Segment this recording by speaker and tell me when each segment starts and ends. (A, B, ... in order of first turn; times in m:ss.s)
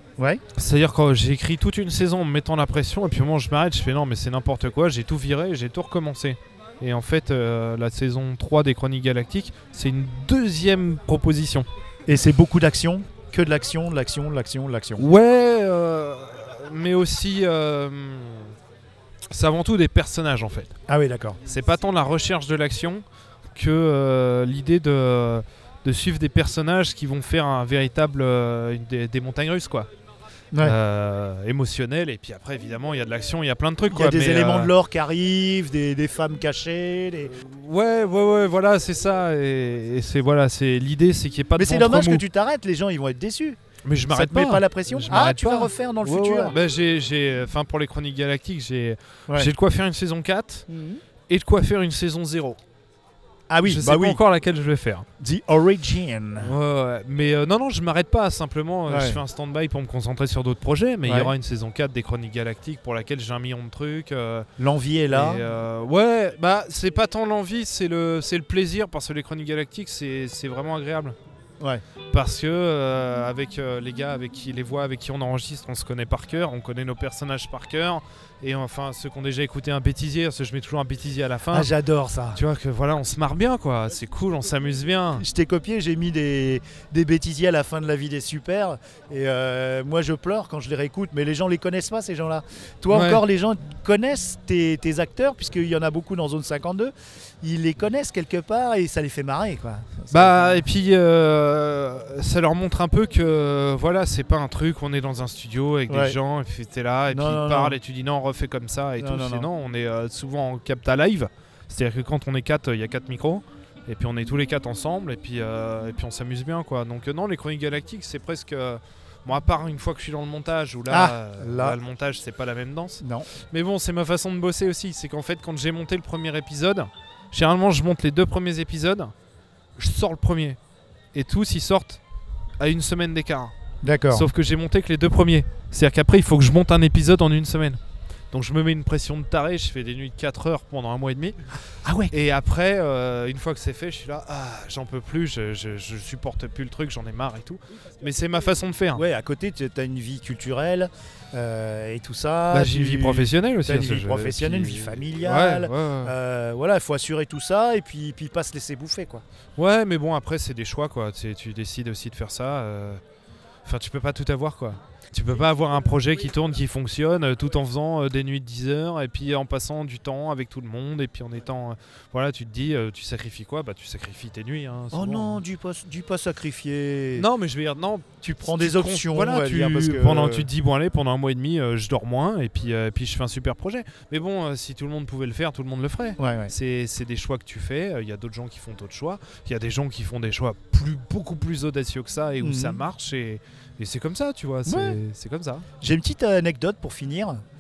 0:00.6-0:11.7 A
0:12.1-0:15.0 B
0:15.0-0:18.6 A
0:19.3-0:20.8 A
0:20.9-0:21.4 B
0:21.5-0:23.0 A
0:23.6-0:29.9 A
0:30.6-0:34.7 A
0:33.9-0:37.3 B
0:37.4-0:42.2 A
0:41.6-0:46.6 B
0:43.8-0:50.7 A
0:50.7-0:51.0 B
0:51.3-0:52.6 A
0:53.5-0:54.2 B
0:53.6-0:55.1 A
0:55.2-0:56.5 B
0:56.4-1:04.5 A
0:58.9-0:59.2 B
1:01.0-1:01.3 B
1:04.6-1:05.4 B
1:05.1-1:11.2 A
1:12.1-1:21.7 A
1:21.5-1:22.4 B
1:22.3-1:25.2 A
1:25.2-1:40.6 B
1:32.9-1:33.2 A
1:40.1-2:09.1 A
1:45.9-1:46.2 B
1:47.1-1:47.8 B
1:49.0-1:49.5 B
2:00.9-2:01.8 B
2:03.0-2:03.3 B
2:09.8-2:10.6 A
2:11.1-2:12.0 A
2:12.6-2:13.6 A
2:13.8-2:14.3 B
2:14.1-2:17.8 A
2:18.3-2:21.4 A
2:21.8-2:22.1 B
2:22.1-2:29.0 A
2:29.0-2:39.2 B
2:32.5-2:36.1 A
2:39.6-2:43.0 A
2:43.6-2:55.4 A
2:54.9-2:57.3 B
2:57.2-3:15.6 A
2:58.2-3:00.5 B
3:06.2-3:06.5 B
3:12.4-3:12.8 B
3:14.7-3:15.0 B
3:15.8-3:17.4 B